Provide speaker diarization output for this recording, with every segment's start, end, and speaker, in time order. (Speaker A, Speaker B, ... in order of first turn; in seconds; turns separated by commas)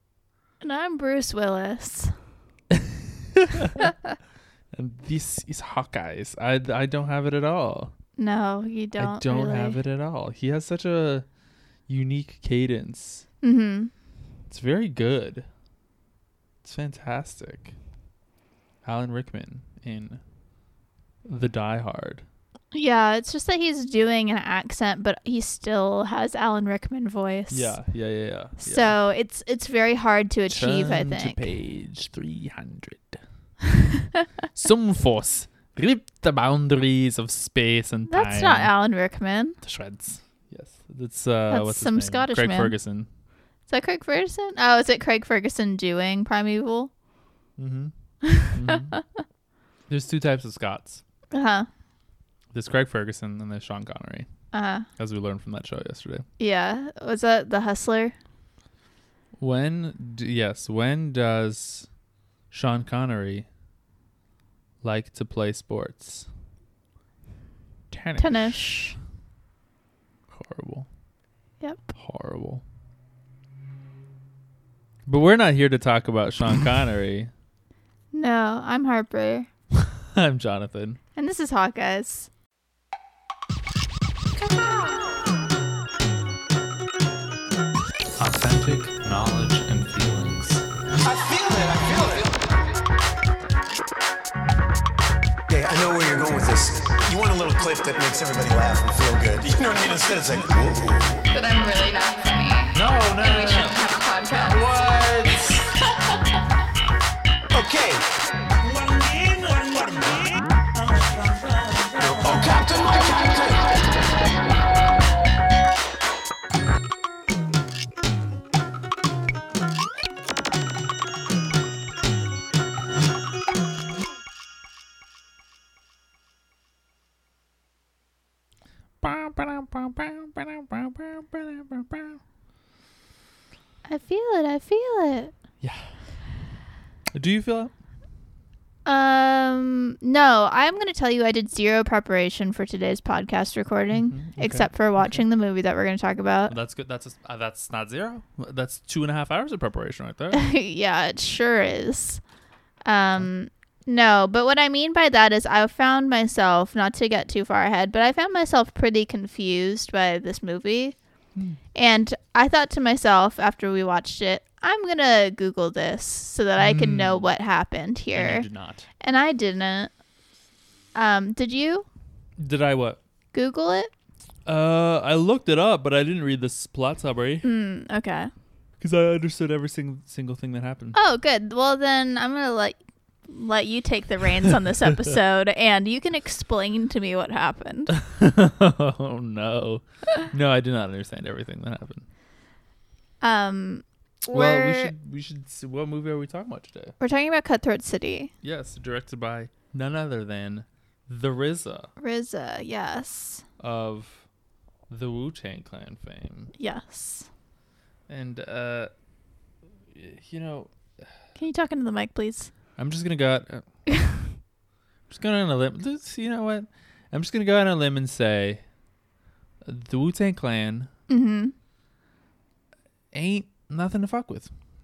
Speaker A: 0.6-2.2, Speaker B: 2.7-3.8, Speaker B: 4.7-7.9, Speaker A: 8.2-9.8, Speaker B: 9.0-11.3, Speaker B: 11.9-13.2, Speaker A: 13.4-13.9, Speaker B: 14.5-15.5, Speaker B: 16.6-17.7, Speaker B: 18.8-20.2, Speaker B: 21.3-22.2, Speaker A: 22.7-27.7, Speaker B: 27.5-28.9, Speaker A: 28.6-31.4, Speaker B: 30.5-33.2, Speaker A: 33.8-34.2, Speaker B: 34.5-38.7, Speaker A: 38.1-39.6, Speaker B: 39.6-43.1, Speaker A: 41.5-42.7, Speaker A: 43.7-46.9, Speaker B: 47.6-47.9, Speaker A: 48.2-49.2, Speaker B: 48.4-49.0, Speaker B: 49.9-51.0, Speaker A: 51.3-51.7, Speaker B: 52.5-54.3, Speaker A: 54.5-54.9, Speaker B: 55.0-56.2, Speaker A: 56.4-58.1, Speaker B: 59.4-61.9, Speaker B: 62.5-63.5, Speaker B: 64.8-66.3, Speaker B: 67.9-68.8, Speaker A: 68.2-69.0, Speaker B: 70.3-70.9, Speaker A: 71.6-71.9, Speaker B: 71.9-72.6, Speaker B: 75.0-77.3, Speaker A: 78.1-79.5, Speaker B: 79.8-81.0, Speaker A: 81.2-82.3, Speaker B: 88.2-90.7, Speaker C: 91.0-92.4, Speaker C: 95.5-101.3, Speaker D: 101.3-102.7, Speaker B: 102.7-103.9, Speaker D: 103.3-104.6, Speaker C: 104.7-105.3, Speaker C: 107.5-108.1, Speaker C: 108.7-110.2, Speaker C: 110.9-113.8, Speaker B: 129.0-132.2, Speaker A: 133.8-135.3, Speaker B: 135.6-135.9, Speaker B: 137.1-137.7, Speaker A: 138.8-146.5, Speaker B: 143.9-145.2, Speaker B: 146.5-150.4, Speaker A: 150.3-152.2, Speaker A: 152.8-161.0, Speaker A: 161.7-168.4, Speaker B: 166.6-167.3, Speaker B: 168.1-168.9, Speaker A: 169.0-169.9, Speaker A: 170.9-171.8, Speaker B: 172.4-173.0, Speaker A: 173.3-173.9, Speaker B: 174.4-177.5, Speaker A: 177.4-178.3, Speaker B: 178.8-181.0, Speaker A: 180.9-187.9, Speaker B: 187.9-192.1, Speaker A: 193.2-194.9, Speaker B: 194.3-196.9, Speaker A: 197.0-198.3, Speaker B: 198.4-201.9, Speaker A: 202.0-203.4, Speaker B: 203.6-204.3, Speaker B: 204.9-206.5, Speaker A: 206.6-207.3, Speaker B: 208.1-208.9, Speaker B: 209.9-210.7, Speaker A: 211.4-212.5, Speaker B: 212.8-213.7, Speaker A: 214.0-214.2, Speaker B: 215.1-218.6, Speaker B: 219.6-220.9, Speaker A: 221.1-221.5, Speaker B: 223.1-224.5